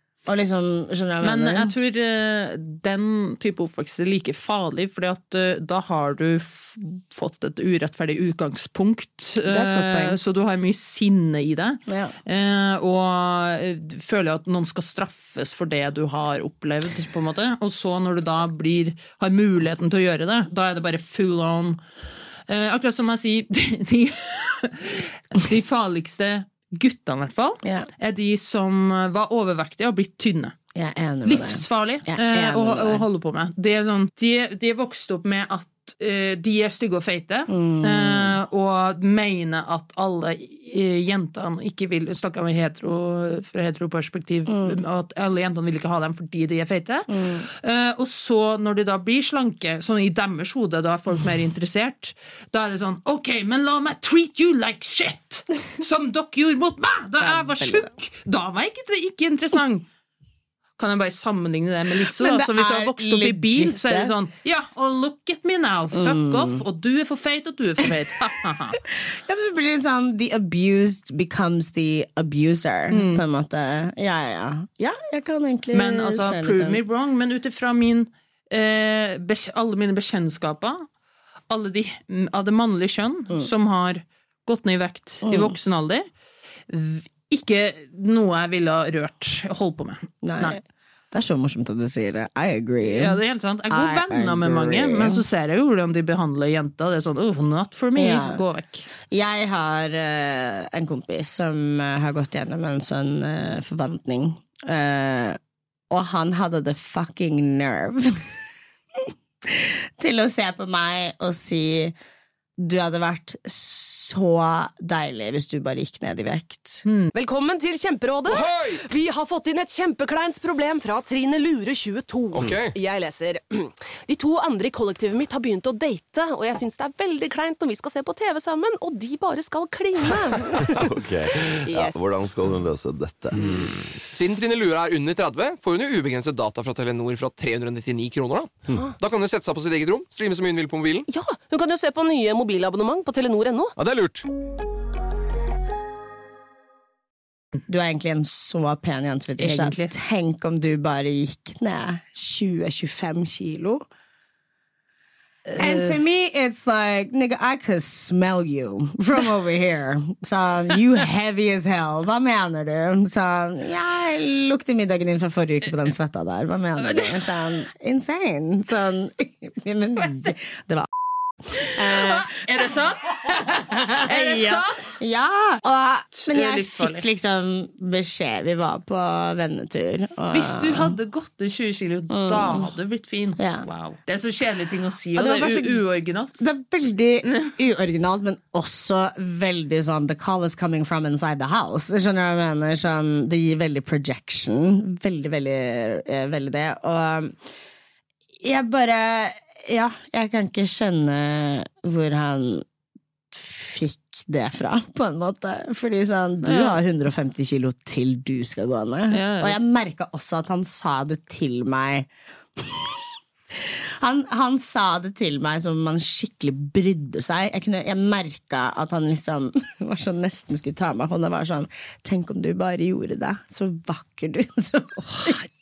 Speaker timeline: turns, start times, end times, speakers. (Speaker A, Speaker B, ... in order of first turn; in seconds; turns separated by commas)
Speaker A: 0.3-1.7, Speaker B: 1.2-21.8, Speaker A: 9.4-10.2, Speaker A: 11.9-12.2, Speaker B: 22.5-30.6, Speaker A: 27.6-27.9, Speaker A: 30.8-33.0, Speaker B: 31.2-59.9, Speaker A: 37.5-38.4, Speaker A: 44.5-44.8, Speaker A: 47.1-47.5, Speaker A: 57.2-57.9, Speaker B: 60.8-68.8, Speaker A: 62.0-64.2, Speaker A: 65.9-66.6, Speaker A: 68.9-76.8, Speaker B: 72.9-73.2, Speaker B: 75.7-80.8, Speaker B: 81.5-86.1, Speaker A: 85.3-85.5, Speaker B: 86.7-90.6, Speaker A: 90.2-90.6, Speaker A: 91.1-93.2, Speaker B: 92.8-98.9, Speaker A: 93.7-95.2, Speaker A: 98.0-98.4, Speaker A: 99.1-105.4, Speaker A: 105.9-108.3, Speaker A: 109.0-112.0, Speaker A: 112.6-116.8, Speaker B: 116.9-117.1, Speaker C: 117.1-130.8, Speaker D: 118.3-118.8, Speaker D: 122.3-122.8, Speaker E: 130.7-133.8, Speaker C: 131.7-132.2, Speaker D: 134.1-141.1, Speaker C: 141.1-143.8, Speaker D: 143.8-144.2, Speaker A: 147.7-153.8, Speaker B: 149.4-149.9, Speaker B: 155.5-156.0, Speaker A: 155.6-170.9, Speaker B: 166.8-167.2, Speaker B: 171.6-173.4, Speaker A: 171.6-172.4, Speaker A: 173.3-181.0, Speaker B: 174.0-174.9, Speaker B: 176.1-177.1, Speaker B: 180.3-186.4, Speaker A: 182.1-182.7, Speaker A: 183.4-183.7, Speaker A: 185.1-185.8, Speaker A: 186.4-197.4, Speaker A: 198.4-202.7, Speaker A: 203.3-213.0, Speaker B: 206.4-206.8, Speaker B: 209.1-209.6, Speaker A: 213.5-225.4